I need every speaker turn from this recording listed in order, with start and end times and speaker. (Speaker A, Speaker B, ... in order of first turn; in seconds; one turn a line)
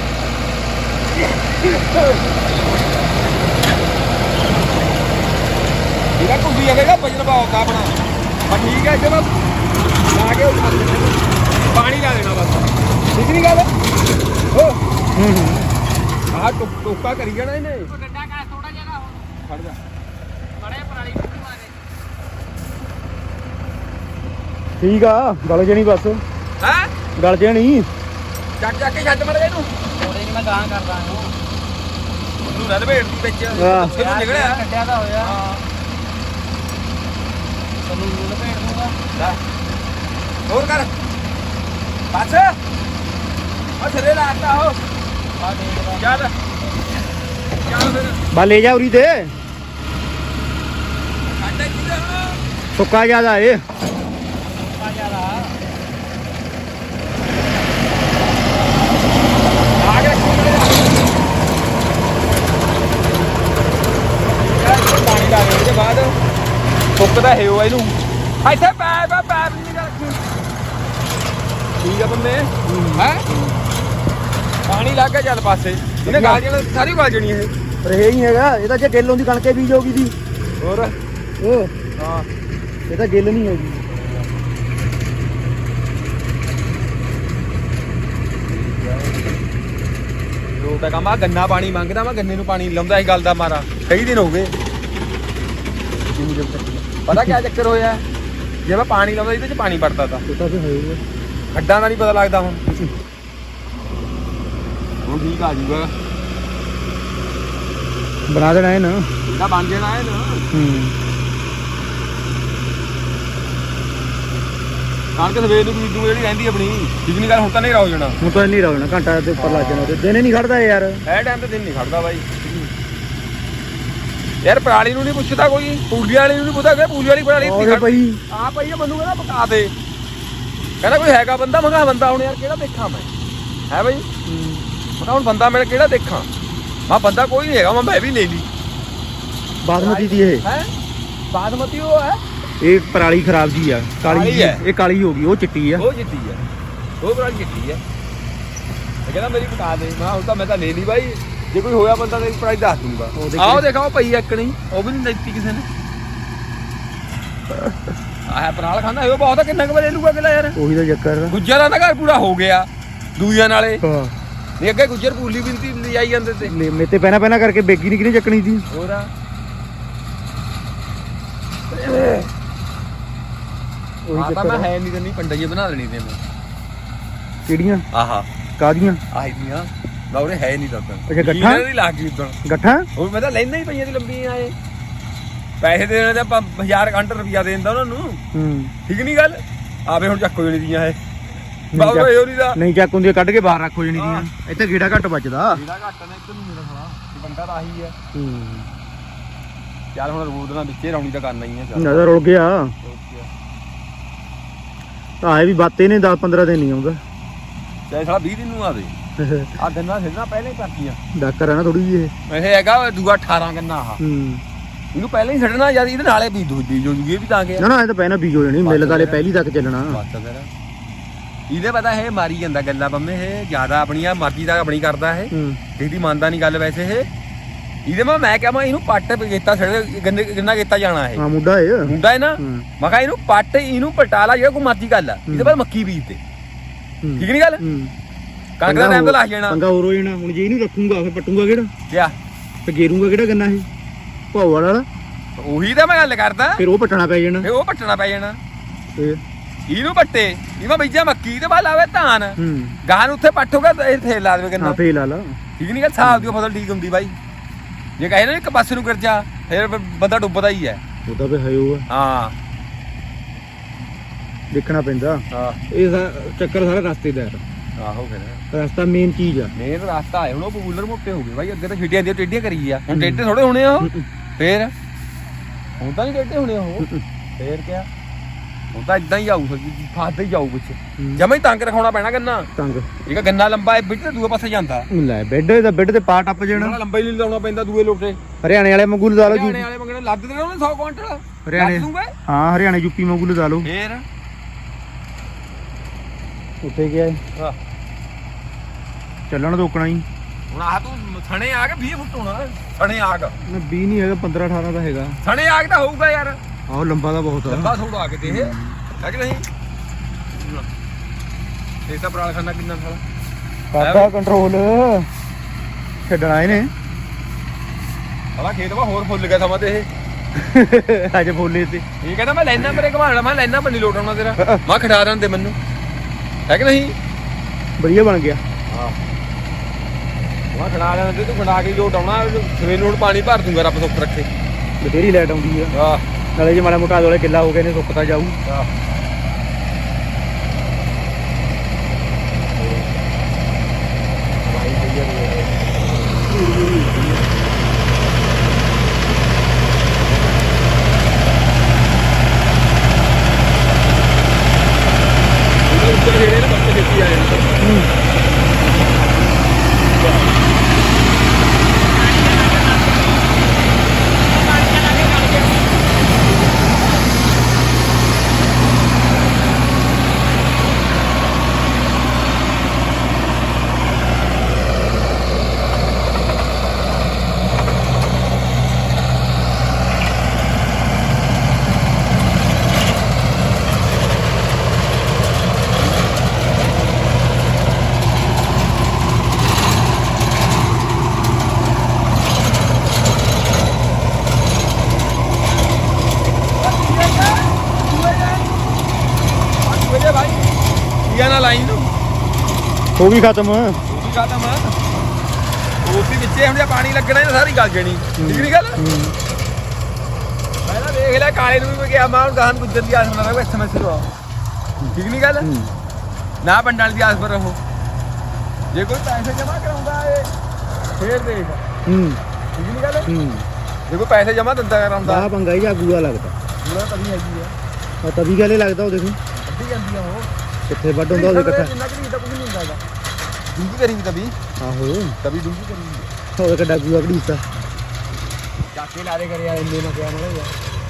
Speaker A: 1.3-2.6
Speaker A: 6.2-9.3
Speaker A: 10.1-13.7
Speaker A: 14.5-14.8
Speaker B: 15.2-15.7
Speaker A: 16.3-17.9
Speaker C: 17.8-19.3
Speaker A: 19.4-19.8
Speaker C: 20.6-21.8
Speaker B: 24.8-26.2
Speaker A: 26.6-26.9
Speaker B: 27.2-27.9
Speaker A: 28.6-29.8
Speaker C: 29.9-31.4
Speaker A: 32.4-34.6
Speaker B: 33.5-34.0
Speaker C: 34.0-35.4
Speaker A: 35.2-35.7
Speaker C: 37.8-39.0
Speaker A: 40.5-40.9
Speaker A: 42.1-42.6
Speaker A: 43.8-44.8
Speaker C: 45.4-46.2
Speaker A: 46.0-46.3
Speaker A: 47.6-48.2
Speaker B: 48.3-49.3
Speaker A: 51.4-52.4
Speaker B: 52.8-53.6
Speaker C: 54.5-55.6
Speaker A: 59.8-61.2
Speaker A: 64.3-66.2
Speaker A: 67.0-70.3
Speaker A: 71.8-73.3
Speaker B: 72.7-73.6
Speaker A: 74.7-77.5
Speaker B: 76.0-76.4
Speaker B: 77.8-80.1
Speaker A: 80.6-81.0
Speaker B: 81.4-81.8
Speaker A: 82.0-82.3
Speaker B: 82.9-83.8
Speaker A: 83.9-84.3
Speaker A: 88.5-89.2
Speaker A: 90.6-94.5
Speaker A: 96.1-98.0
Speaker A: 98.6-100.2
Speaker B: 100.3-101.0
Speaker A: 101.5-102.7
Speaker A: 105.0-105.9
Speaker B: 108.3-109.1
Speaker A: 109.2-110.5
Speaker B: 110.5-111.0
Speaker A: 115.2-118.2
Speaker B: 118.2-121.0
Speaker A: 119.4-120.0
Speaker A: 121.1-122.3
Speaker B: 122.4-122.7
Speaker A: 124.4-129.7
Speaker B: 127.4-128.2
Speaker A: 130.8-133.1
Speaker A: 133.7-134.1
Speaker B: 134.3-134.7
Speaker A: 135.0-136.3
Speaker A: 136.9-138.5
Speaker B: 139.6-140.5
Speaker A: 139.8-140.7
Speaker A: 141.3-142.2
Speaker B: 142.6-145.8
Speaker A: 144.0-144.6
Speaker A: 145.8-146.4
Speaker A: 147.0-147.8
Speaker A: 149.1-155.7
Speaker B: 153.2-153.7
Speaker B: 157.5-157.9
Speaker A: 158.3-160.6
Speaker B: 160.6-161.4
Speaker A: 161.3-163.8
Speaker B: 163.8-164.1
Speaker A: 164.6-166.6
Speaker B: 166.4-168.7
Speaker A: 168.7-169.1
Speaker A: 171.7-172.3
Speaker B: 174.1-174.7
Speaker A: 174.1-176.2
Speaker B: 177.5-177.8
Speaker A: 177.9-178.3
Speaker B: 178.6-179.0
Speaker A: 179.1-182.4
Speaker B: 181.1-181.7
Speaker B: 182.4-182.9
Speaker A: 183.0-184.5
Speaker A: 185.6-188.2
Speaker B: 188.3-188.7
Speaker A: 188.9-191.0
Speaker B: 191.7-195.6
Speaker A: 191.7-192.6
Speaker A: 193.9-194.3
Speaker A: 195.5-197.9
Speaker B: 198.1-198.7
Speaker A: 199.9-202.1
Speaker B: 201.8-202.7
Speaker A: 202.8-203.3
Speaker B: 205.2-207.0
Speaker A: 207.9-208.9
Speaker B: 209.2-209.5
Speaker A: 209.6-211.0
Speaker B: 211.1-212.1
Speaker A: 212.3-214.0
Speaker B: 214.0-214.4
Speaker A: 214.9-217.7
Speaker B: 217.6-220.0
Speaker A: 218.6-219.2
Speaker A: 219.9-220.5
Speaker A: 221.5-227.1
Speaker B: 225.3-225.6
Speaker A: 227.9-231.2
Speaker B: 231.2-232.7
Speaker A: 231.8-236.2
Speaker B: 235.3-235.6
Speaker B: 237.0-237.9
Speaker A: 237.2-237.6
Speaker A: 238.6-239.6
Speaker B: 238.6-241.7
Speaker A: 241.9-242.2
Speaker B: 242.7-243.7
Speaker B: 244.3-244.9
Speaker A: 245.4-246.6
Speaker B: 246.6-247.5
Speaker A: 247.4-248.4
Speaker A: 249.7-254.8
Speaker B: 252.4-252.8
Speaker B: 254.6-255.4
Speaker A: 255.6-257.2
Speaker B: 256.0-256.3
Speaker A: 258.0-260.8
Speaker B: 261.1-261.9
Speaker A: 261.9-262.4
Speaker B: 264.5-267.4
Speaker A: 265.3-265.6
Speaker A: 267.8-268.4
Speaker B: 268.5-269.5
Speaker A: 269.6-274.7
Speaker B: 272.9-273.3
Speaker B: 273.8-274.1
Speaker A: 275.8-277.9
Speaker A: 278.7-282.5
Speaker B: 281.0-281.2
Speaker B: 282.6-282.9
Speaker A: 283.1-284.9
Speaker B: 284.9-286.8
Speaker A: 286.5-288.2
Speaker B: 288.4-289.7
Speaker A: 289.2-292.1
Speaker B: 291.4-293.7
Speaker A: 293.6-294.1
Speaker B: 296.6-297.2
Speaker B: 299.3-300.1
Speaker A: 300.5-303.4
Speaker B: 303.4-305.2
Speaker A: 305.2-306.4
Speaker B: 306.7-308.8
Speaker A: 307.4-309.5
Speaker A: 310.4-310.7
Speaker A: 311.9-313.0
Speaker B: 313.7-315.1
Speaker A: 313.8-314.1
Speaker B: 316.1-316.7
Speaker A: 318.4-319.9
Speaker B: 320.4-321.8
Speaker A: 322.0-325.6
Speaker B: 324.4-324.6
Speaker A: 326.5-326.9
Speaker B: 327.8-328.4
Speaker A: 328.7-329.0
Speaker A: 330.5-334.3
Speaker B: 334.8-335.8
Speaker A: 335.7-336.0
Speaker B: 336.4-338.4
Speaker A: 342.5-343.0
Speaker A: 344.4-347.4
Speaker A: 355.7-357.6
Speaker B: 357.6-357.9
Speaker A: 359.9-360.3
Speaker C: 361.9-365.9
Speaker A: 396.5-398.6
Speaker A: 399.6-401.9
Speaker B: 403.0-403.8
Speaker A: 403.9-404.8
Speaker A: 405.8-408.8
Speaker B: 408.2-409.1
Speaker A: 410.6-414.1
Speaker B: 414.8-415.7
Speaker A: 414.9-415.5
Speaker A: 416.4-417.6
Speaker A: 418.7-420.3
Speaker A: 421.0-421.6
Speaker B: 421.9-422.2
Speaker A: 422.5-423.1
Speaker B: 423.1-423.5
Speaker A: 423.9-425.3
Speaker B: 425.0-426.4
Speaker A: 426.6-427.5
Speaker B: 428.0-429.2
Speaker A: 429.4-430.3
Speaker B: 430.7-431.7
Speaker A: 431.1-432.8
Speaker A: 433.5-434.4
Speaker B: 434.6-435.2
Speaker A: 435.2-436.1
Speaker B: 436.4-437.4
Speaker A: 438.7-440.6